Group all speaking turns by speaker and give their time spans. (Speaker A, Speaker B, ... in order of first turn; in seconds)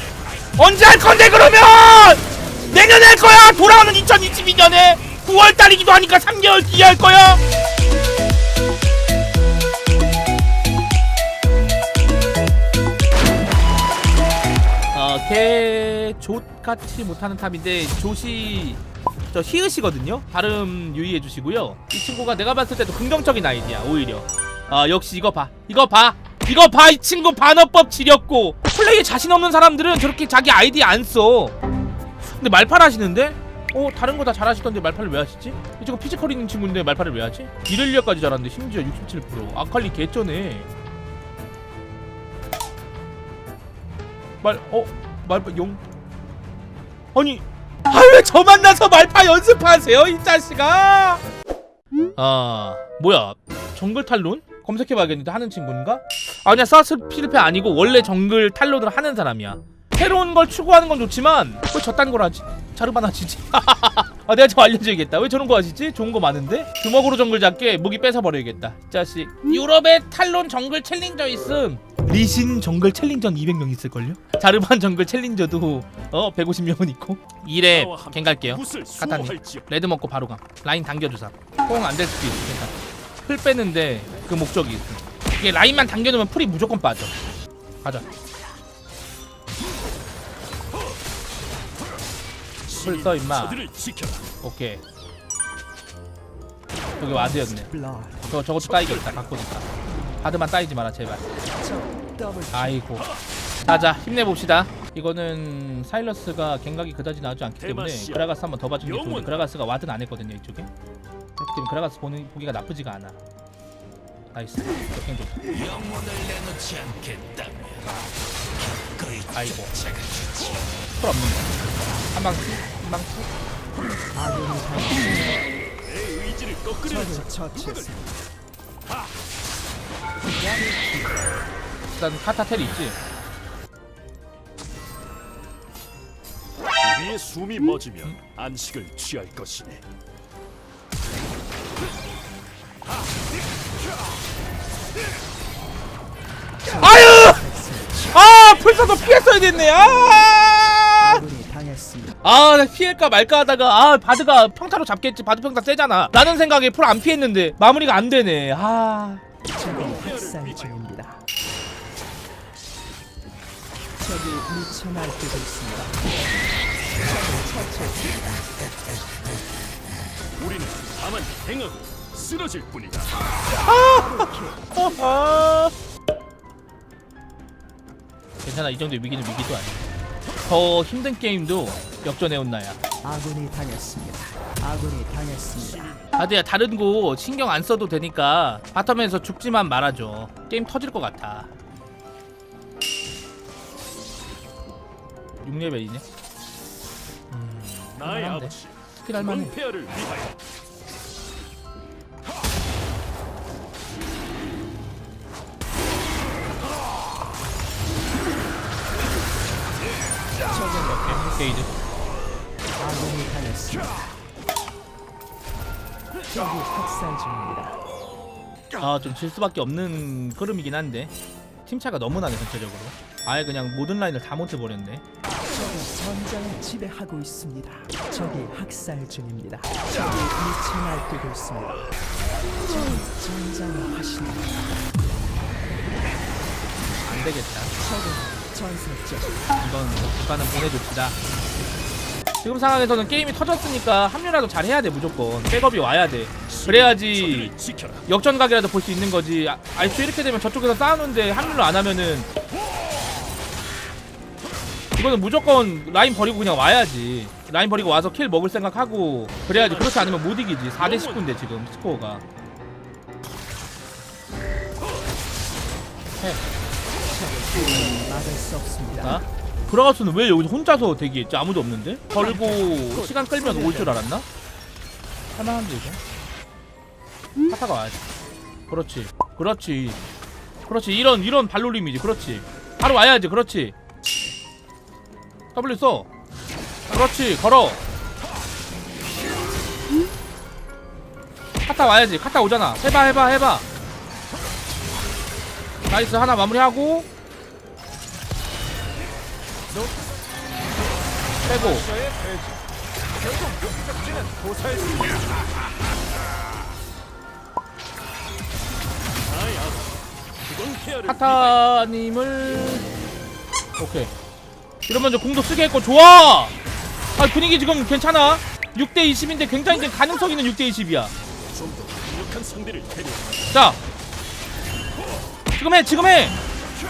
Speaker A: 0.6-7.4, 14.9-18.8, 19.3-31.6, 32.2-40.7, 44.4-45.8, 47.1-51.2, 52.2-87.1, 92.8-93.6, 94.4-94.8, 97.0-97.7, 98.3-99.7, 100.2-101.2, 102.5-103.1, 103.7-110.7, 111.4-113.2, 114.3-115.4, 119.3-119.8, 121.0-121.5, 122.1-123.3, 131.9-133.0, 146.7-147.4, 148.1-151.3, 152.2-159.2, 173.6-175.7, 178.4-179.9, 180.4-182.8, 186.2-191.5, 195.4-196.0, 197.3-199.6, 210.7-211.7, 218.8-221.1, 221.7-225.0, 237.0-237.7, 239.6-241.2, 242.4-247.5, 248.1-252.3, 255.0-262.2, 269.0-274.2, 275.4-276.0, 277.5-278.0, 278.7-280.0, 280.7-283.8, 285.6-286.1, 286.9-287.8, 291.7-293.6, 295.9-297.1, 301.4-301.9, 311.1-312.9, 313.8-314.1, 314.9-316.5, 317.2-321.1, 323.5-323.8, 325.6-326.4
Speaker B: 77.7-79.7, 92.7-94.2, 98.5-99.2, 107.6-108.3, 108.8-109.4, 115.8-117.6, 125.8-127.9, 136.8-139.8, 159.7-160.8, 170.4-173.1, 185.6-186.1, 198.0-200.3, 246.5-248.0, 259.5-260.1, 260.8-261.2, 301.9-302.5, 303.4-305.1, 309.3-311.6, 321.5-323.4
Speaker C: 97.1-98.3, 101.5-102.8, 124.1-125.4, 126.8-128.2, 130.3-131.2, 146.6-148.2, 151.0-152.2, 159.5-161.2, 164.0-166.1, 167.0-168.4, 173.9-174.8, 183.0-185.9, 210.5-211.7, 212.8-214.1, 216.3-217.8, 225.5-231.9, 232.6-234.8, 237.8-239.4, 267.1-269.2, 272.9-274.0